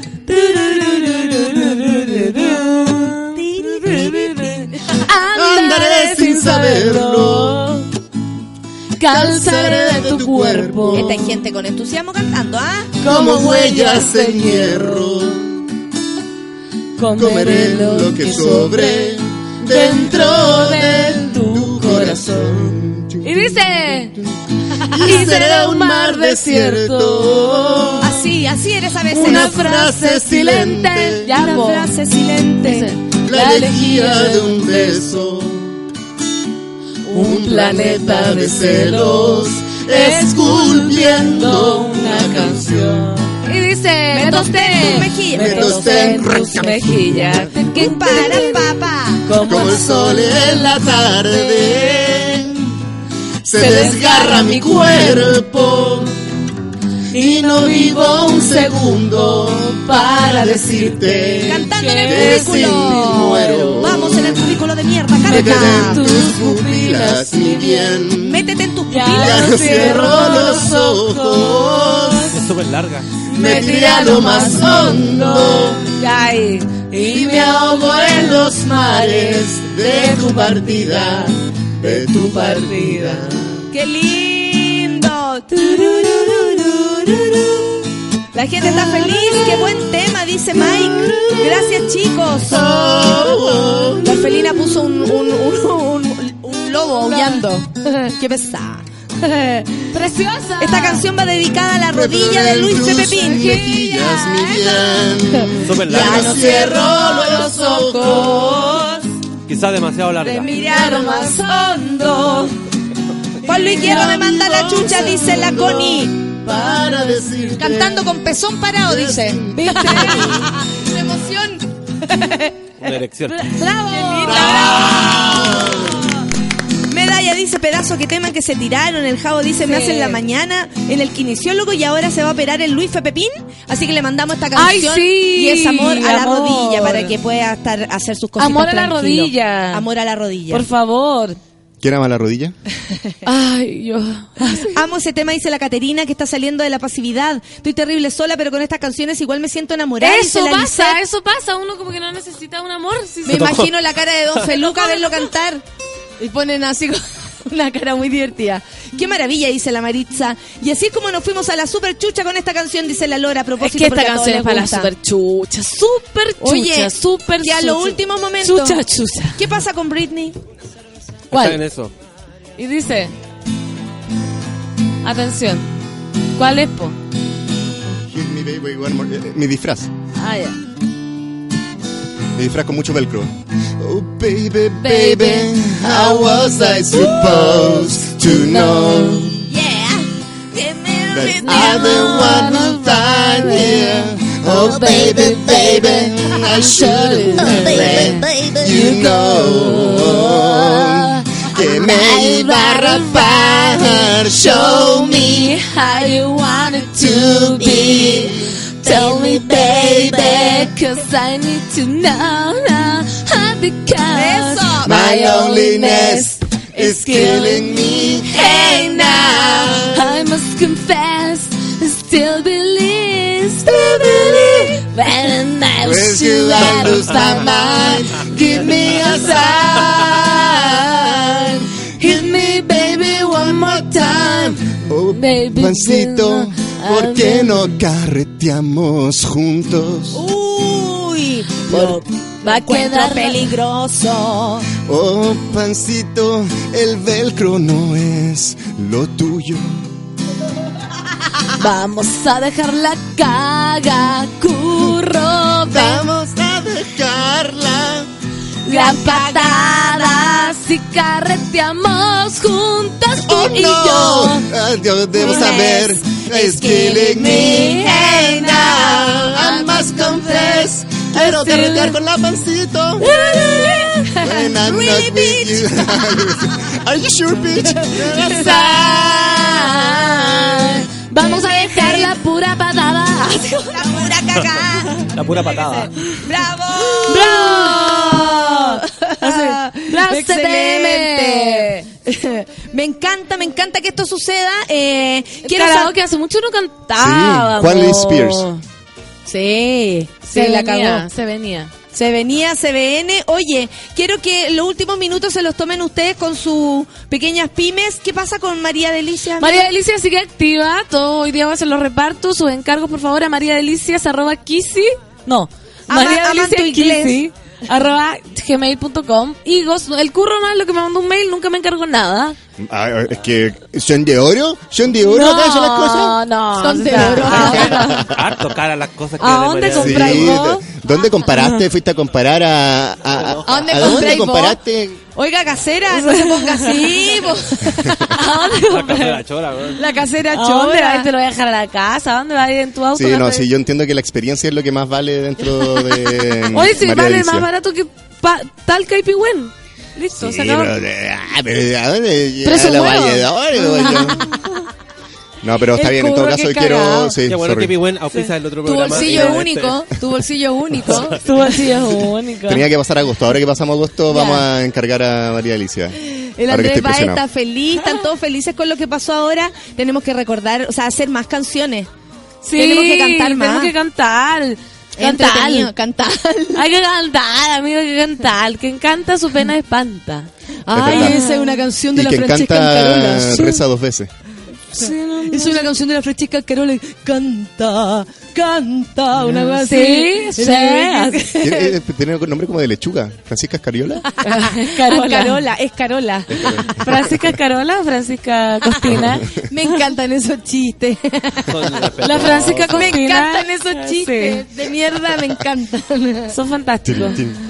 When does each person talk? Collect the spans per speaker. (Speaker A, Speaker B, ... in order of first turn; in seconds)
Speaker A: 0.3-7.9, 9.0-11.4, 13.0-15.2, 17.0-22.7, 23.2-24.2, 24.9-28.3, 29.0-32.0, 32.6-34.7, 37.1-51.9, 53.5-55.4, 57.1-64.5, 65.2-68.1, 68.9-72.4, 73.2-81.2, 81.8-83.5, 85.7-86.7, 93.3-93.7, 97.0-97.5, 99.9-101.1, 102.9-104.4, 110.4-112.5, 113.5-114.2, 114.8-115.2, 116.5-117.1, 119.5-120.5, 123.4-125.5, 129.6-130.2, 134.6-137.1, 138.4-139.9, 140.5-141.4, 143.2-144.8, 150.0-153.6, 154.4-155.3, 163.6-169.6, 171.3-171.6, 172.6-173.1, 175.0-175.7, 176.4-177.0, 180.2-180.6, 184.8-187.3, 188.2-189.2, 191.4-231.1, 232.0-234.5, 235.1-237.8, 241.7-243.6, 251.6-256.1, 258.6-264.5, 265.2-272.0, 273.0-274.4, 277.8-284.2, 287.0-291.7, 295.4-298.6, 300.2-301.7, 309.4-322.4, 324.9-328.1, 329.2-331.6, 333.9-334.2, 335.9-337.6, 338.1-339.2, 340.3-343.5, 346.5-350.8, 352.4-354.6, 358.9-359.4, 361.0-362.7, 372.4-375.7, 376.6-380.3, 380.9-381.7, 384.7-385.7, 389.3-391.2, 394.2-395.4, 396.4-399.8, 402.0-404.5, 406.3-407.2
Speaker B: 3.4-5.1, 10.9-13.0, 28.0-29.6, 31.2-33.0, 44.1-46.4, 47.6-49.4, 61.5-66.1, 68.1-70.2, 73.5-74.5, 83.7-86.8, 88.3-93.3, 93.9-99.9, 100.6-105.0, 105.8-109.0, 110.2-112.5, 113.4-116.2, 117.6-122.5, 123.5-125.9, 126.9-140.7, 142.9-143.2, 144.5-151.0, 153.2-155.6, 156.2-164.9, 166.4-170.4, 186.9-187.9, 189.4-192.6, 197.4-198.9, 208.8-210.7, 214.1-215.2, 218.3-219.9, 240.1-244.7, 258.7-260.6, 265.2-269.3, 273.1-276.3, 278.2-282.2, 283.7-295.9, 299.3-301.1, 301.9-309.7, 315.9-317.2, 326.6-327.9, 333.4-334.6, 335.1-338.5, 339.8-341.1, 355.7-357.2, 358.6-361.2, 364.1-364.5, 366.1-371.9, 372.5-373.7, 375.0-376.7, 380.7-383.6, 384.8-391.7, 394.1-397.1, 398.8-406.4
Speaker C: 5.3-7.6, 9.1-11.1, 13.0-15.6, 17.1-23.6, 24.9-28.1, 29.1-31.3, 33.1-35.7, 37.1-43.1, 45.3-47.8, 49.4-52.6, 53.5-56.1, 57.1-64.6, 65.3-68.4, 69.1-72.3, 73.3-75.8, 77.2-83.2, 88.7-89.8, 90.6-94.7, 101.9-108.6, 113.5-118.2, 118.8-120.1, 124.2-125.9, 141.8-142.6, 178.0-179.9, 182.4-189.4, 191.1-205.6, 207.0-208.5, 214.8-220.1, 223.8-224.7, 225.8-240.2, 244.8-249.9, 255.7-258.1, 263.2-273.3, 274.2-278.9, 297.0-298.5, 322.6-326.2, 327.0-328.4, 329.7-335.0, 337.8-338.1, 342.9-347.5, 350.1-354.3, 355.4-357.8, 362.4-367.2, 380.7-381.2, 381.9-384.1, 391.4-394.1, 399.0-399.2, 406.9-407.4
Speaker D: 72.3-73.1, 105.6-106.5, 109.5-110.5, 122.8-123.5, 153.3-153.7, 171.3-171.9, 284.9-285.9, 327.8-330.4, 333.1-333.7, 338.6-339.8, 357.3-359.9, 360.9-361.4, 401.5-403.0